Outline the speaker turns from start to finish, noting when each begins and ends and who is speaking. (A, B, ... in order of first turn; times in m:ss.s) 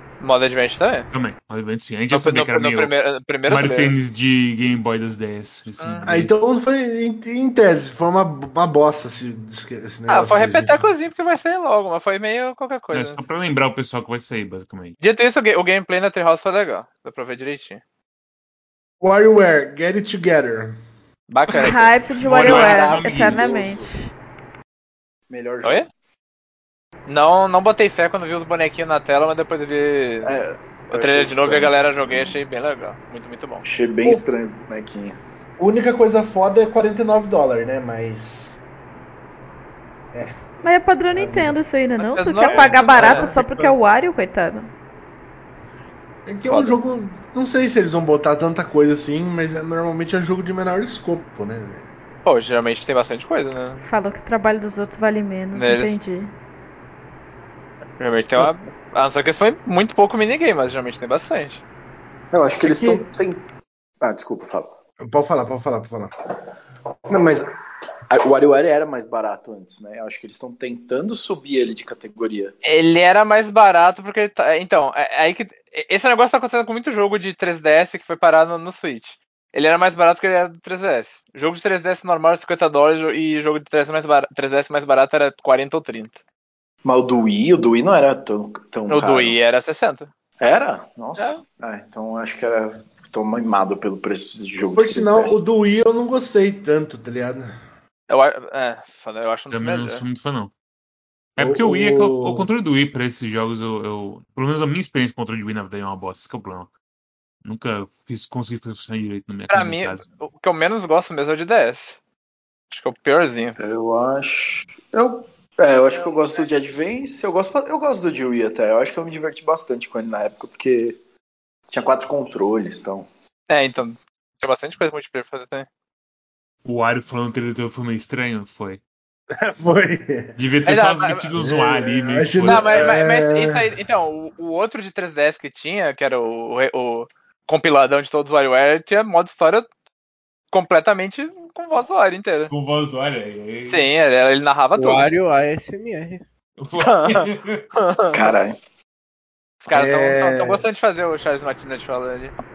0:00.2-0:01.1 A
0:01.1-0:02.9 B
0:02.1-0:03.9 A
0:03.5-0:06.3 B
0:05.8-0:06.0 A
0:06.0-0:10.9 C
0:10.1-0:13.2 A
0:12.9-0:15.0 B
0:15.0-0:17.8 A
0:19.0-0:20.8 C
0:21.3-0:21.9 A
0:21.5-0:23.5 B
0:21.6-0:24.1 D
0:22.4-0:23.9 E
0:25.3-0:25.9 E
0:27.1-0:30.3 A
0:30.2-0:32.4 E
0:30.9-0:33.6 A
0:33.6-0:35.2 E
0:35.6-0:38.6 C
0:40.1-0:40.4 C
0:40.6-0:44.7 D
0:41.1-0:41.6 C
0:42.0-0:43.4 A
0:42.5-0:43.8 F
0:46.3-0:51.9 C
0:46.5-0:46.8 A
0:52.2-0:53.8 A
0:53.8-0:56.3 D
0:55.5-0:56.0 A
0:58.0-1:01.6 A
1:02.3-1:03.4 E
1:02.6-1:03.1 C
1:04.0-1:04.7 E
1:05.0-1:06.1 C
1:07.1-1:07.5 C
1:08.1-1:12.6 E
1:12.6-1:26.2 A
1:26.8-1:29.4 E
1:28.9-1:30.1 A
1:30.4-1:35.4 E
1:34.7-1:37.5 C
1:38.1-1:40.0 A
1:39.5-1:40.5 B
1:41.4-1:46.7 B
1:41.4-1:42.5 C
1:47.4-1:50.0 B
1:49.5-1:52.0 A
1:52.7-1:53.6 A
1:53.6-2:01.0 E
2:01.7-2:03.1 E
2:03.5-2:05.7 A
2:06.6-2:08.8 B
2:09.3-2:10.4 C
2:10.4-2:12.9 B
2:10.7-2:11.3 A
2:11.4-2:13.7 C
2:12.4-2:19.7 A
2:20.5-2:22.5 A
2:22.5-2:23.9 B
2:23.7-2:25.1 A
2:24.8-2:26.2 F
2:26.6-2:27.6 B
2:28.1-2:28.6 E
2:29.6-2:32.4 A
2:29.7-2:30.6 C